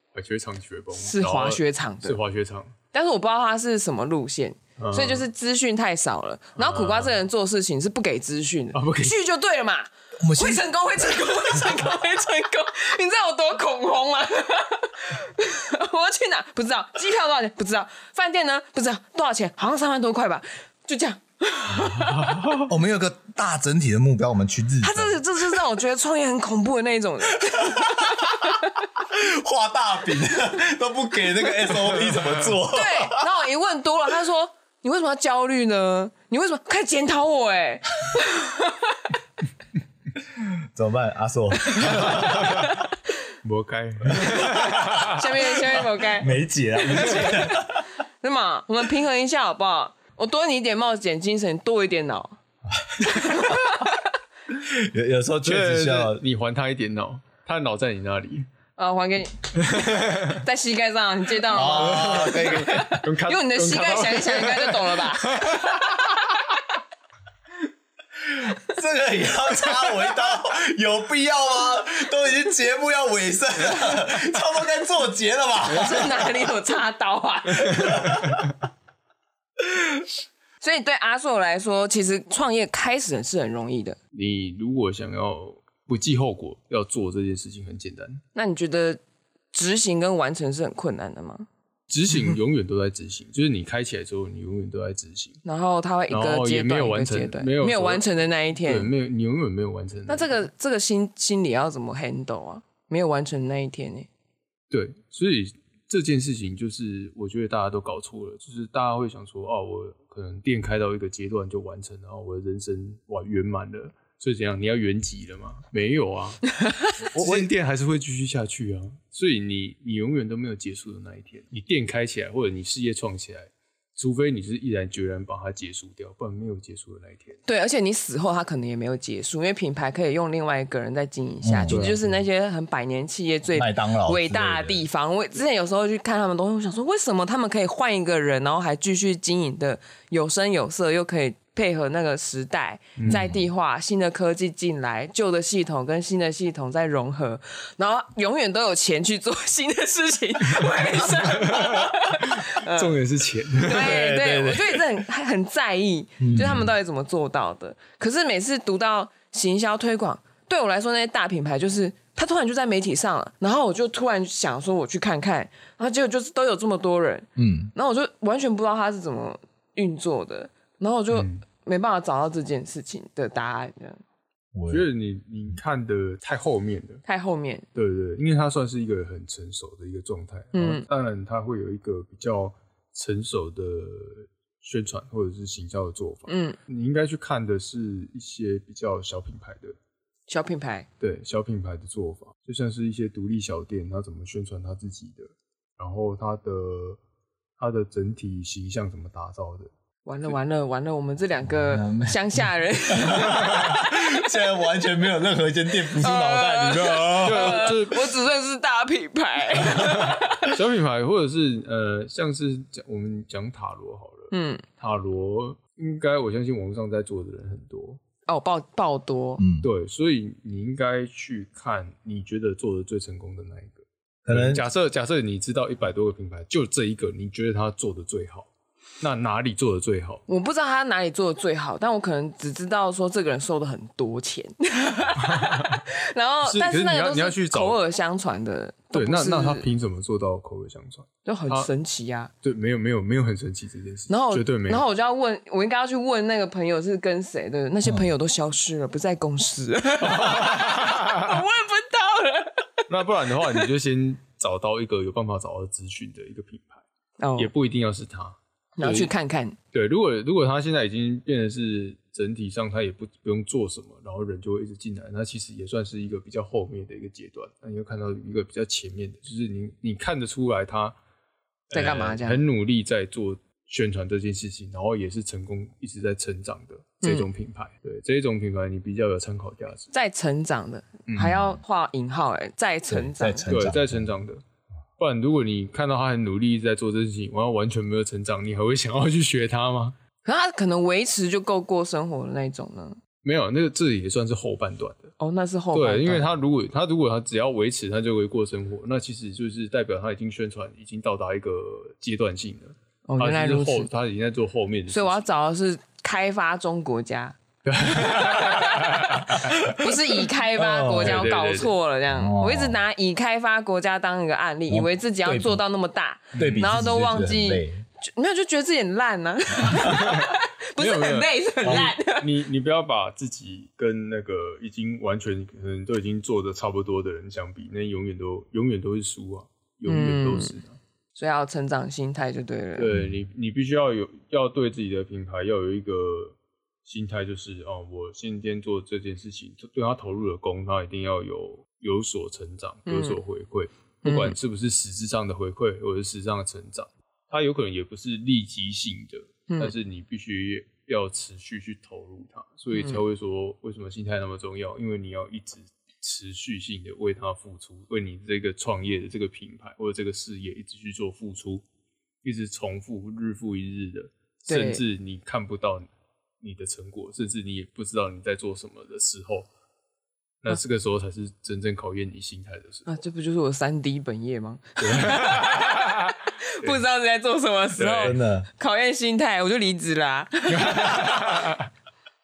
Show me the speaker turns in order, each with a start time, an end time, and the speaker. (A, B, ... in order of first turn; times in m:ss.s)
0:00.1-0:02.7 A
0:01.0-0:02.2 B
0:02.9-0:22.4 B
0:04.8-0:05.3 A
0:06.6-0:07.2 A
0:08.7-0:09.2 A
0:10.2-0:10.6 C
0:22.2-0:22.6 A
0:22.6-0:25.2 C
0:24.8-0:28.8 B
0:27.4-0:33.3 C
0:32.7-0:39.1 B
0:40.4-0:42.7 C
0:41.7-0:42.1 B
0:42.0-0:42.7 A
0:43.4-0:45.2 A
0:44.2-0:44.7 C
0:44.9-0:52.4 B
0:46.2-0:47.8 C
0:52.9-0:53.6 C
0:53.0-0:54.0 B
0:54.5-0:56.2 C
0:55.4-0:58.5 A
0:58.8-1:06.4 B
0:59.7-1:00.4 A
1:01.5-1:02.9 C
1:01.6-1:05.8 A
1:08.3-1:16.4 C
1:15.6-1:18.2 B
1:17.7-1:18.4 C
1:20.6-1:24.0 B
1:24.1-1:28.2 A
1:28.3-1:29.0 B
1:29.5-1:31.5 B
1:31.9-1:35.4 A
1:35.4-1:38.9 B
1:36.1-1:40.3 A
1:40.1-1:44.1 B
1:44.7-2:07.4 A
1:57.1-1:57.5 C
2:07.4-2:32.9 B
2:11.4-2:11.9 C
2:11.7-2:12.0 A
2:13.6-2:14.8 C
2:23.0-2:23.3 A
2:23.1-2:23.4 C
2:30.6-2:34.1 A
2:33.6-2:54.0 B
2:33.8-2:34.8 C
2:36.2-2:36.7 C
2:47.4-2:47.7 C
2:51.1-2:51.4 A
2:54.5-2:54.9 C
2:54.7-2:57.0 A
2:57.0-2:57.6 B
2:57.7-3:09.8 A
3:00.5-3:00.9 B
3:06.3-3:06.6 B
3:10.3-3:10.9 B
3:11.0-3:17.0 A
3:17.6-3:19.7 A
3:20.0-3:23.9 B
3:21.7-3:27.8 C
3:25.9-3:30.5 B
3:27.1-3:28.1 A
3:29.9-3:38.0 A
3:34.3-3:34.6 B
3:38.3-3:39.4 B
3:39.4-3:39.7 C
3:39.6-3:48.5 A
3:44.3-3:44.6 C
3:49.0-3:50.2 A
3:50.3-3:59.6 B
3:55.2-3:55.8 A
3:56.4-3:57.8 A
3:58.9-4:01.7 A
4:01.2-4:02.3 B
4:02.4-4:04.8 A
4:04.1-4:12.8 B
4:10.0-4:11.3 A
4:12.9-4:16.8 A
4:17.2-4:17.5 B
4:17.4-4:19.1 A
4:18.8-4:19.6 B
4:19.7-4:31.0 A
4:31.7-4:39.9 A
4:31.7-4:32.4 B
4:37.0-4:37.3 B
4:39.9-4:43.5 B
4:41.1-4:41.4 A
4:41.2-4:41.6 C
4:42.9-4:44.1 C
4:43.5-4:44.4 A
4:45.0-4:50.0 A
4:50.2-4:53.0 B
4:53.2-4:55.1 A
4:55.2-4:56.3 B
4:55.7-5:05.2 A
5:03.1-5:03.9 B
5:04.9-5:07.4 B
5:07.6-5:09.6 A
5:09.3-5:09.8 C
5:09.5-5:22.3 B
5:10.6-5:11.2 C
5:11.0-5:11.7 A
5:12.1-5:12.8 C
5:14.7-5:15.6 C
5:16.3-5:16.6 A
5:16.4-5:17.8 C
5:19.6-5:20.0 C
5:19.8-5:30.8 A
5:21.6-5:21.9 C
5:29.9-5:30.6 B
5:31.1-5:32.9 B
5:32.8-6:01.6 A
5:42.9-5:43.2 B
5:44.0-5:44.4 B
5:52.7-5:53.0 B
6:02.2-6:05.9 A
6:04.5-6:04.8 B
6:06.4-6:09.5 A
6:10.4-6:12.9 A
6:12.9-6:21.5 B
6:14.8-6:16.8 A
6:17.8-6:18.2 A
6:18.0-6:18.5 C
6:20.5-6:21.7 A